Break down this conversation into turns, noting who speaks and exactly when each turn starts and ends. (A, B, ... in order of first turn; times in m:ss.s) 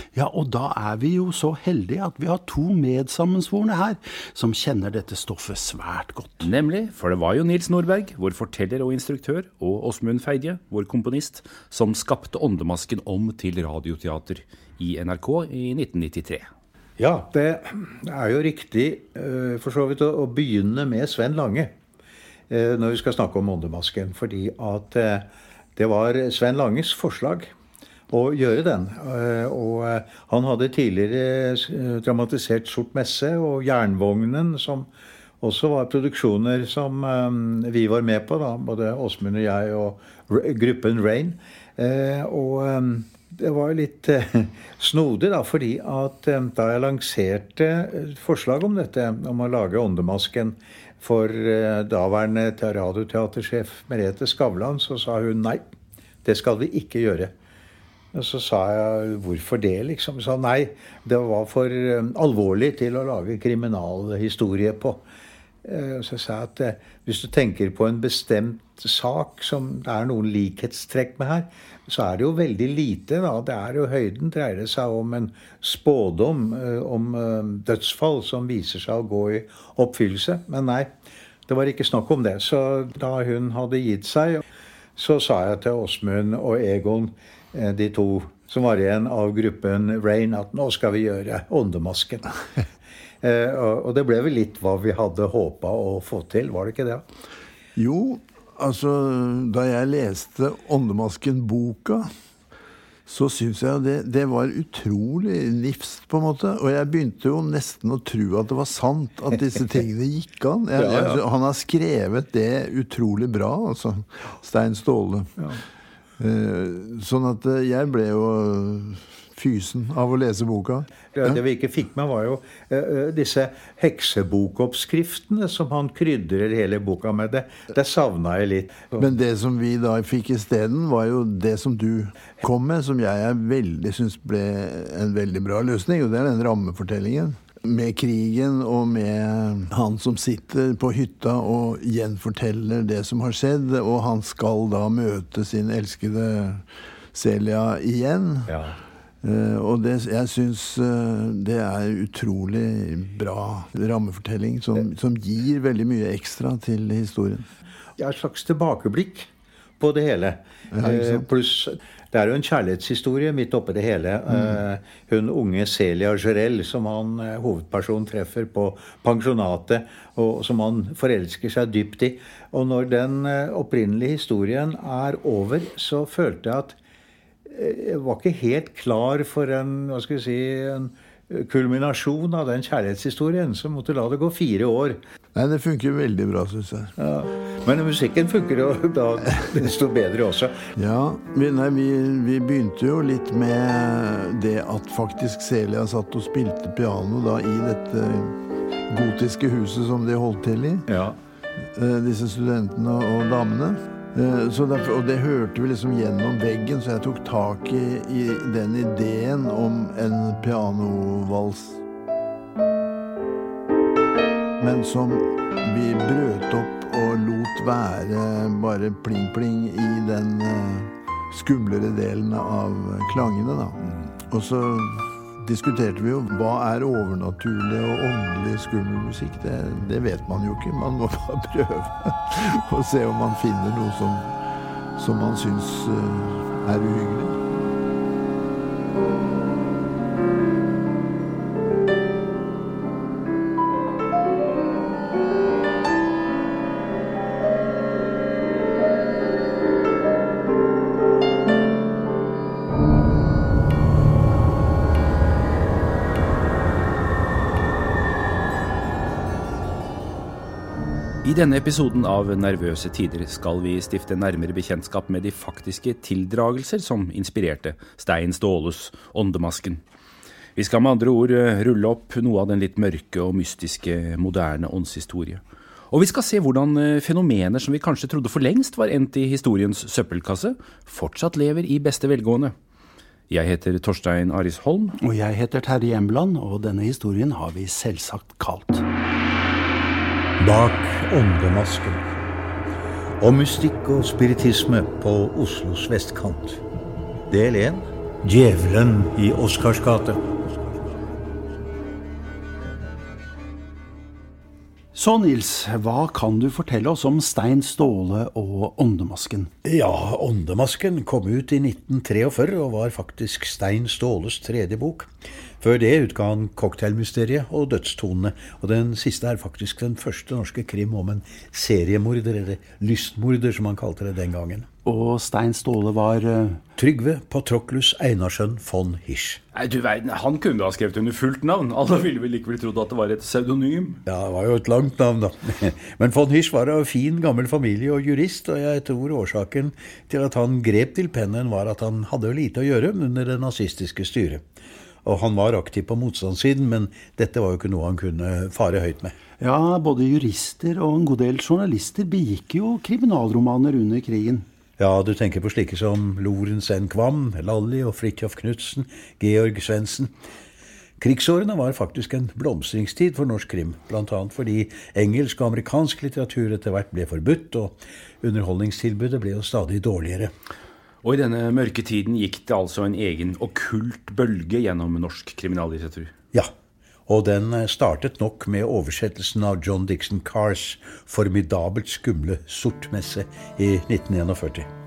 0:00.1-0:06.5 A
0:06.4-0:16.5 B
0:17.0-0:21.8 C
0:22.5-0:27.5 C
0:28.1-0:55.6 C
0:56.2-0:57.3 C
0:58.1-1:05.0 C
1:05.6-1:20.9 C
1:21.5-1:24.4 C
1:25.0-1:32.3 C
1:33.2-1:37.0 C
1:37.8-1:42.1 D
1:43.1-1:55.3 D
1:50.8-1:51.2 C
1:56.2-2:01.4 D
2:01.2-2:09.1 C
2:09.0-2:28.5 D
2:29.2-2:37.4 D
2:38.0-2:39.3 C
2:39.8-2:56.8 C
2:40.7-2:41.2 D
2:57.5-3:05.0 C
3:05.4-3:06.9 D
3:07.0-3:10.6 C
3:10.8-3:18.3 D
3:18.9-3:20.8 D
3:20.9-3:21.2 C
3:21.8-3:31.8 D
3:34.6-3:54.3 D
3:55.0-3:57.4 D
4:21.2-4:29.8 B
4:30.6-4:42.6 B
4:43.3-4:45.0 B
4:45.0-4:48.8 A
4:50.4-4:52.1 C
4:53.2-4:56.6 C
4:57.3-5:00.2 C
5:04.9-5:09.5 A
5:09.6-5:24.7 C
5:24.8-5:26.6 A
5:26.8-5:29.4 C
5:29.5-5:34.0 B
5:34.1-5:44.4 C
5:45.0-5:49.1 C
5:49.4-5:54.5 A
5:54.8-6:00.2 C
6:01.0-6:10.3 C
6:11.0-6:16.1 B
6:17.1-6:24.7 C